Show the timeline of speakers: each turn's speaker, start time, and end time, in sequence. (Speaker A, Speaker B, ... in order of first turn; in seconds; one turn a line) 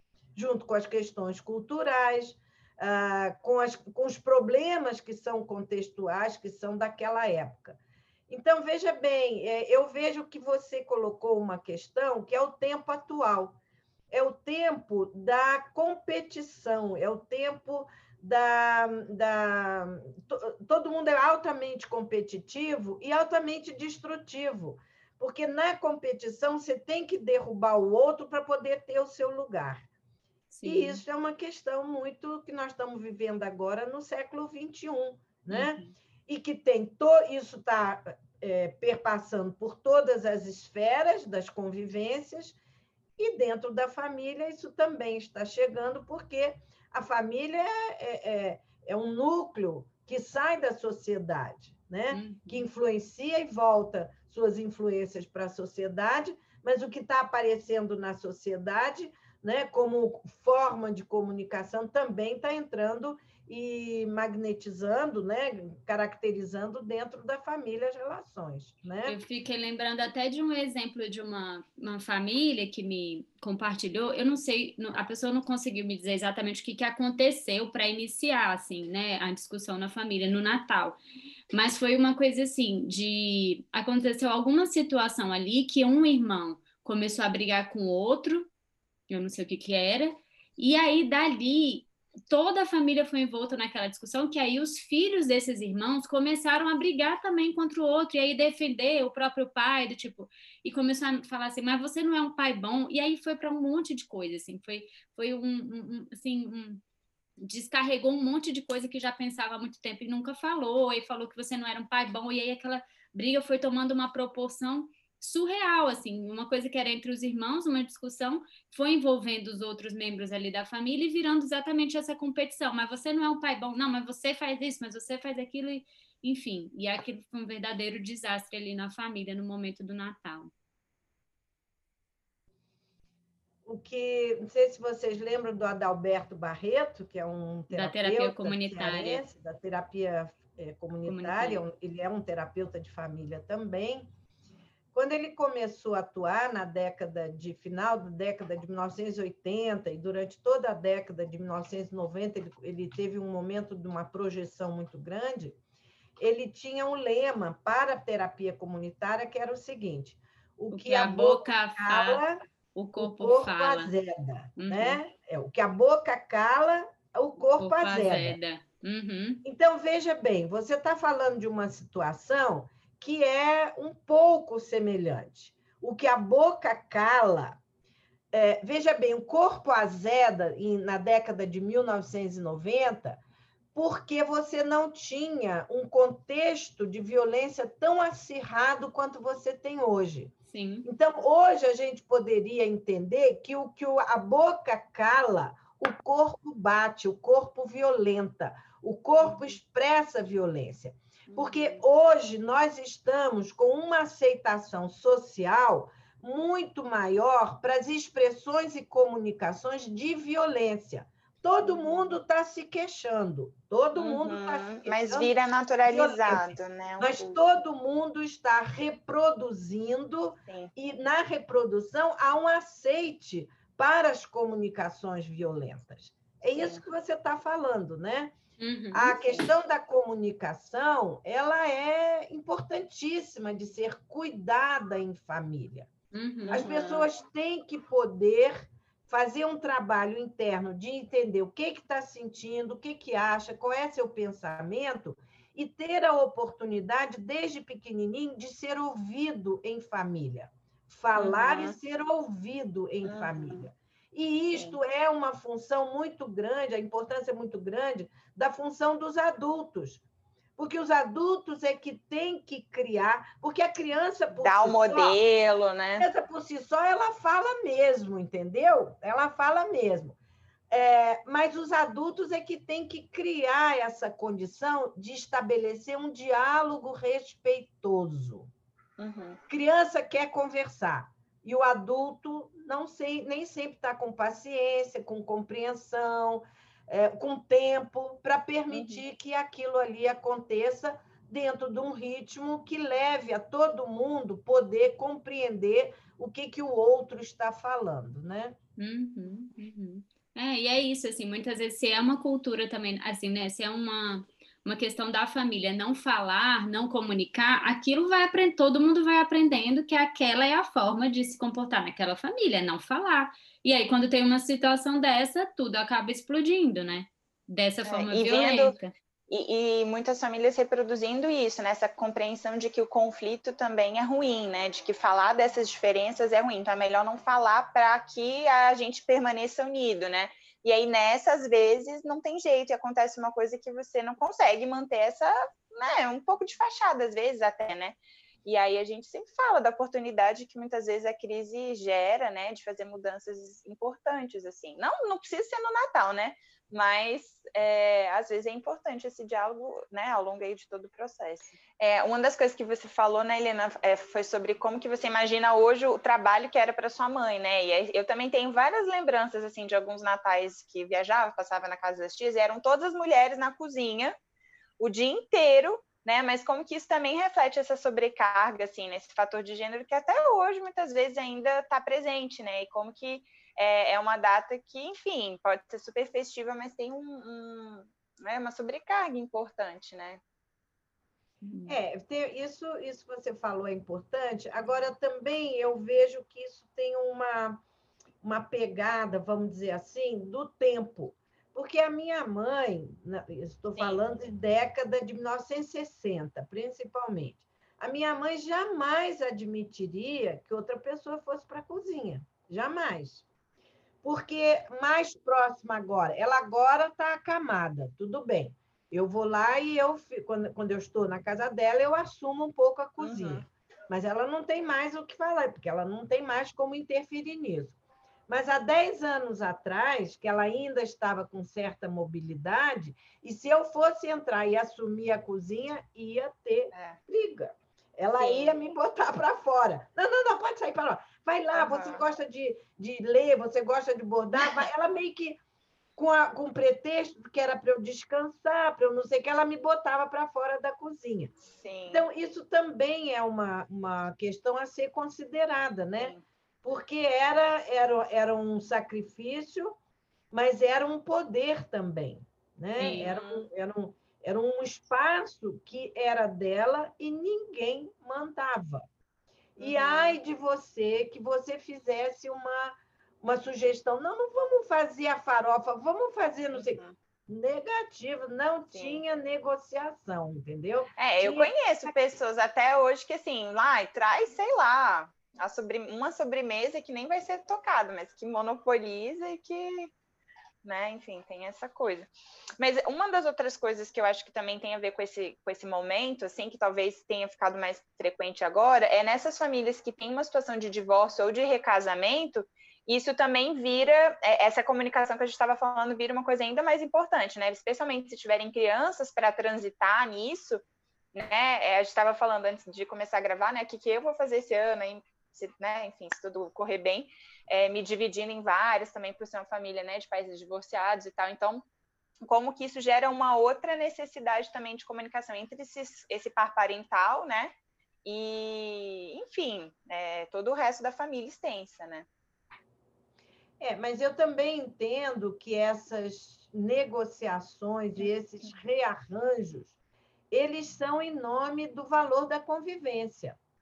Speaker A: 0.3-7.8
Speaker A: 8.3-13.6
Speaker A: 14.1-29.9
Speaker B: 30.5-31.0
Speaker A: 30.6-42.6
Speaker B: 35.5-35.9
Speaker A: 43.2-69.2
Speaker B: 52.1-52.7
Speaker B: 69.1-81.0
Speaker B: 81.5-88.5
Speaker B: 89.1-106.8
Speaker B: 107.4-130.5
Speaker A: 133.7-144.1
Speaker B: 137.7-139.2
Speaker B: 141.1-141.6
Speaker A: 144.9-155.6
Speaker A: 156.2-162.4
Speaker B: 160.7-162.2
Speaker B: 162.7-163.9
Speaker A: 163.0-168.4
Speaker B: 164.6-165.0
Speaker B: 167.6-169.4
Speaker A: 169.4-177.6
Speaker A: 178.3-183.2
Speaker A: 183.8-190.3
Speaker B: 190.5-190.9
Speaker A: 190.8-215.3
Speaker C: 201.3-201.8
Speaker C: 211.7-212.0
Speaker C: 214.0-217.4
Speaker A: 215.9-228.3
Speaker C: 226.6-226.8
Speaker B: 228.6-229.4
Speaker A: 228.9-235.9
Speaker B: 236.1-236.7
Speaker C: 236.5-237.1
Speaker A: 236.5-260.0
Speaker C: 251.2-251.8
Speaker C: 253.0-253.6
Speaker C: 254.5-254.8
Speaker A: 260.6-265.2
Speaker C: 264.4-266.1
Speaker A: 266.0-270.2
Speaker A: 270.7-278.5
Speaker C: 279.0-279.4
Speaker A: 279.5-298.6
Speaker C: 288.7-289.0
Speaker B: 298.8-318.9
Speaker C: 317.9-318.8
Speaker C: 319.3-364.1
Speaker C: 364.8-380.2
Speaker B: 381.4-381.8
Speaker A: 381.7-387.6
Speaker A: 388.2-403.2
Speaker C: 393.8-394.0
Speaker A: 404.0-417.8
Speaker C: 413.0-413.4
Speaker A: 418.3-435.4
Speaker C: 426.7-427.0
Speaker C: 428.2-428.6
Speaker C: 431.5-432.0
Speaker A: 436.0-441.3
Speaker C: 441.5-442.1
Speaker A: 441.9-449.8
Speaker A: 450.3-458.9
Speaker B: 452.8-453.1
Speaker C: 452.9-453.5
Speaker A: 459.6-471.9
Speaker C: 459.6-460.2
Speaker C: 466.5-466.9
Speaker C: 468.7-469.0
Speaker C: 471.0-479.9
Speaker C: 480.6-500.6
Speaker C: 501.1-511.6
Speaker C: 512.3-517.5
Speaker C: 518.0-522.1
Speaker A: 523.6-529.8
Speaker A: 530.3-533.4